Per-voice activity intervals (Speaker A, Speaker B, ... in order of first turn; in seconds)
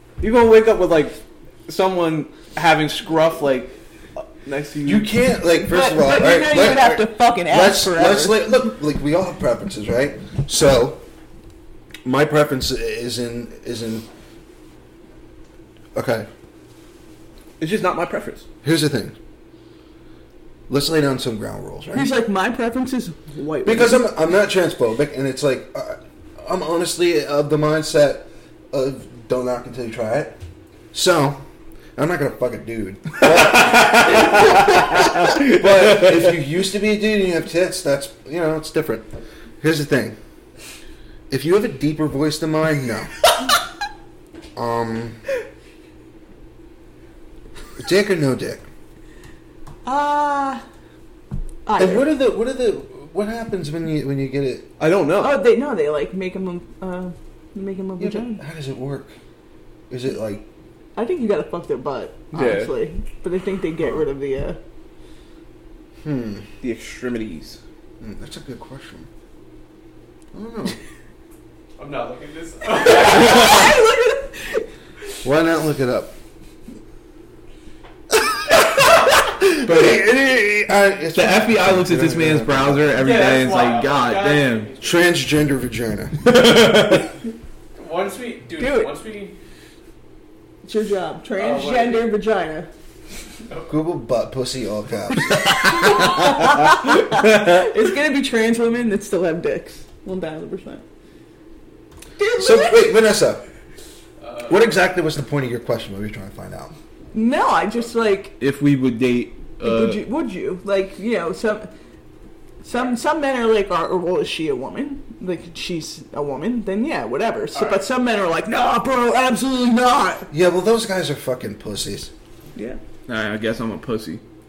Speaker A: 0.2-5.1, 17.6-18.4, 33.4-36.2, 54.8-55.4, 62.3-62.7, 66.6-67.6, 79.6-80.0, 81.1-84.7, 86.2-87.1, 97.1-97.6, 108.4-110.0, 123.1-124.2
Speaker B: 4.8-11.0, 12.0-14.1, 15.9-16.3, 18.6-19.1, 20.7-22.1, 23.6-30.3, 30.9-31.4, 31.9-39.1, 39.6-40.2, 41.3-43.2, 44.5-45.2, 47.8-48.6, 51.8-54.7, 58.0-59.1, 59.9-60.4, 66.0-66.5, 68.0-69.1, 70.3-70.8, 75.2-76.1, 79.1-83.0, 84.8-86.3, 93.7-95.7, 102.4-103.4, 104.5-106.7, 120.3-122.1
Speaker C: 5.7-8.5, 21.9-24.0, 49.8-50.6, 51.6-52.0, 55.2-58.4, 61.0-64.6, 72.8-74.7, 88.6-88.9, 90.6-92.7, 95.4-100.8, 102.2-103.0, 107.1-108.3, 109.6-111.7, 112.6-120.3
Speaker D: 71.8-73.8, 83.0-85.1, 87.8-89.3, 91.3-92.1, 104.2-104.7, 117.5-117.8